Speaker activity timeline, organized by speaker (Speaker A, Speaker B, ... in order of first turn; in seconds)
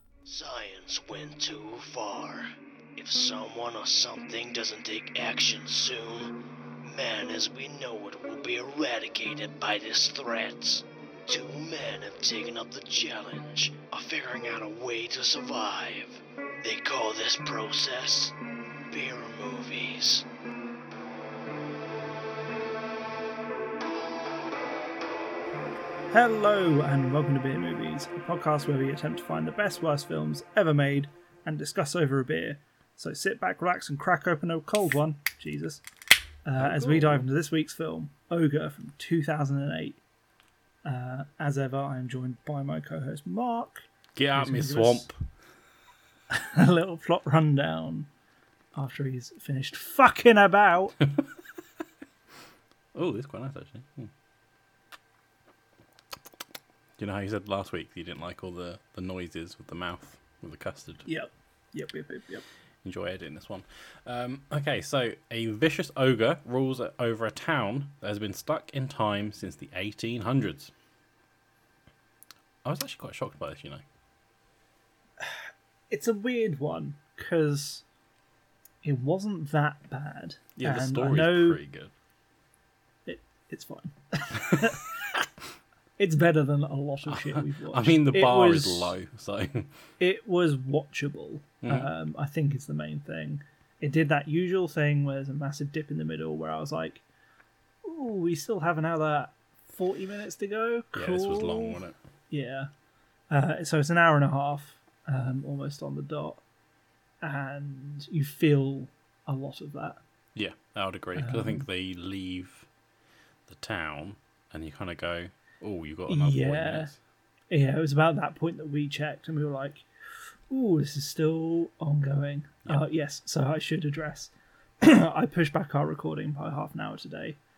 Speaker A: 0.2-18.3, 18.9-20.2
Speaker B: 26.1-35.8, 36.5-40.0, 40.8-45.1, 46.3-48.1, 48.7-51.0, 61.0-62.4, 75.2-77.8, 78.8-81.6, 83.0-84.9, 86.0-89.0, 90.0-97.0, 97.8-102.7, 103.3-106.4, 107.2-110.0, 111.2-111.6, 116.1-116.9, 117.5-119.9, 120.5-127.4
Speaker C: 36.6-37.3, 44.2-45.2, 52.9-54.1, 57.0-61.0, 62.8-70.7, 72.6-73.8, 80.5-81.9, 87.1-89.7, 91.6-91.9, 100.9-102.0, 110.3-112.7, 113.5-117.0